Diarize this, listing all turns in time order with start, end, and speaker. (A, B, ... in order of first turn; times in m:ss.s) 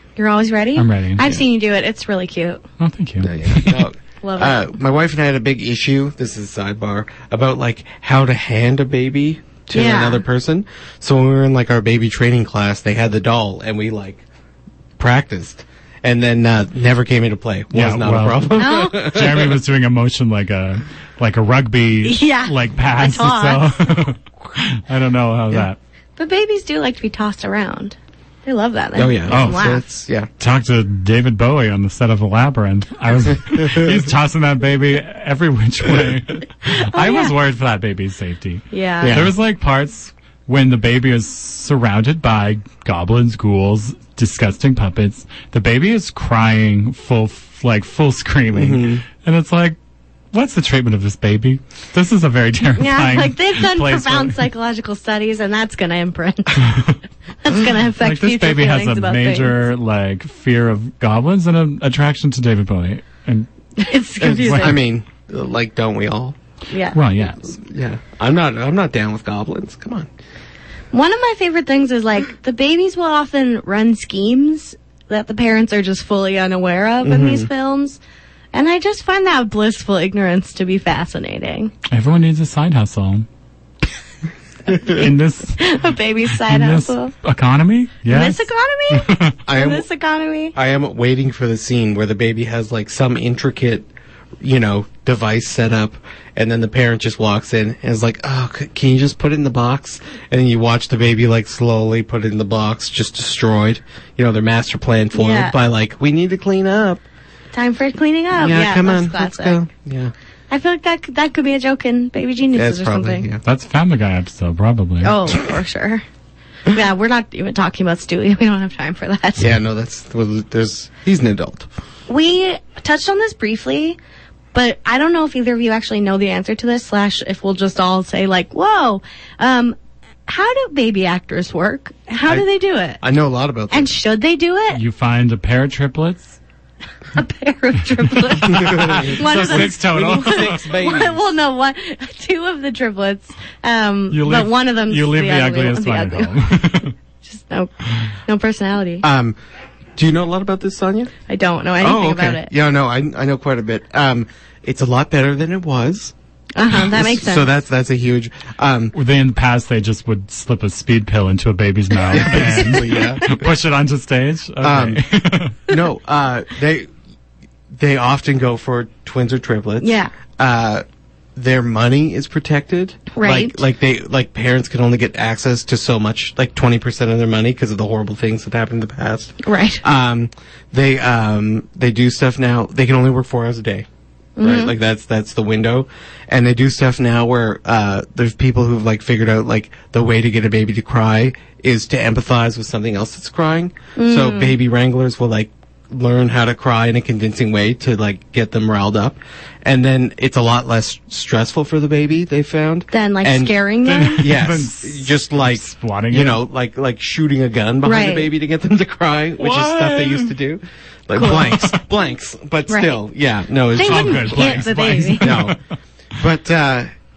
0:00.2-0:02.6 A
0:00.8-0:01.3 B
0:02.8-0:03.8 B
0:03.2-0:14.2 C
0:04.2-0:04.7 A
0:09.7-0:10.2 A
0:15.0-0:19.6 C
0:17.7-0:25.8 B
0:18.6-0:19.1 A
0:22.0-0:23.8 A
0:26.2-0:29.9 A
0:29.0-0:30.3 C
0:29.3-0:29.7 B
0:30.4-0:49.8 B
0:36.7-0:37.3 A
0:38.7-0:39.3 A
0:39.0-0:39.3 C
0:48.5-0:49.0 C
0:50.3-0:54.4 B
0:52.8-0:56.8 A
0:56.6-0:57.0 B
0:57.4-0:59.5 A
0:58.0-1:03.5 B
1:03.8-1:04.8 A
1:04.2-1:04.8 B
1:04.2-1:06.4 C
1:06.7-1:07.0 A
1:06.9-1:07.5 B
1:07.5-1:10.1 C
1:10.9-1:18.0 A
1:17.0-1:17.5 C
1:18.5-1:21.7 A
1:21.9-1:23.3 B
1:24.7-1:25.1 C
1:24.7-1:25.8 B
1:25.6-1:27.1 A
1:26.3-1:29.4 B
1:28.1-1:30.5 A
1:29.4-1:29.8 C
1:30.5-1:33.9 C
1:34.4-1:47.0 C
1:45.1-1:45.6 A
1:47.5-1:49.6 A
1:48.3-1:50.1 C
1:50.5-1:53.3 A
1:52.5-1:53.4 C
1:53.4-1:55.2 B
1:55.0-1:56.0 A
1:56.7-1:59.5 A
1:59.4-2:01.7 C
2:02.1-2:04.0 A
2:04.5-2:13.0 A
2:13.0-2:13.9 C
2:13.7-2:14.8 A
2:14.7-2:16.4 B
2:17.1-2:26.5 A
2:18.2-2:20.7 B
2:18.5-2:21.2 C
2:24.1-2:26.9 B
2:27.2-2:29.0 A
2:29.0-2:29.4 C
2:30.0-2:31.1 C
2:31.3-2:32.5 A
2:31.8-2:36.1 C
2:36.6-2:37.5 A
2:36.7-2:38.9 C
2:38.9-2:45.6 B
2:42.1-2:43.4 C
2:44.6-2:45.0 C
2:45.7-2:46.9 C
2:47.7-2:50.8 C
2:49.8-2:50.1 A
2:51.4-3:03.8 C
2:53.1-2:53.6 A
2:59.4-2:59.8 A
3:04.4-3:04.7 A
3:04.4-3:23.5 C
3:14.0-3:14.6 A
3:22.9-3:24.3 A
3:23.8-3:26.4 B
3:24.2-3:35.6 C
3:27.8-3:28.3 A
3:29.4-3:30.3 B
3:31.1-3:31.5 A
3:31.2-3:31.8 B
3:32.7-3:33.0 A
3:33.7-3:35.4 A
3:33.8-3:35.6 B
3:36.2-3:36.9 C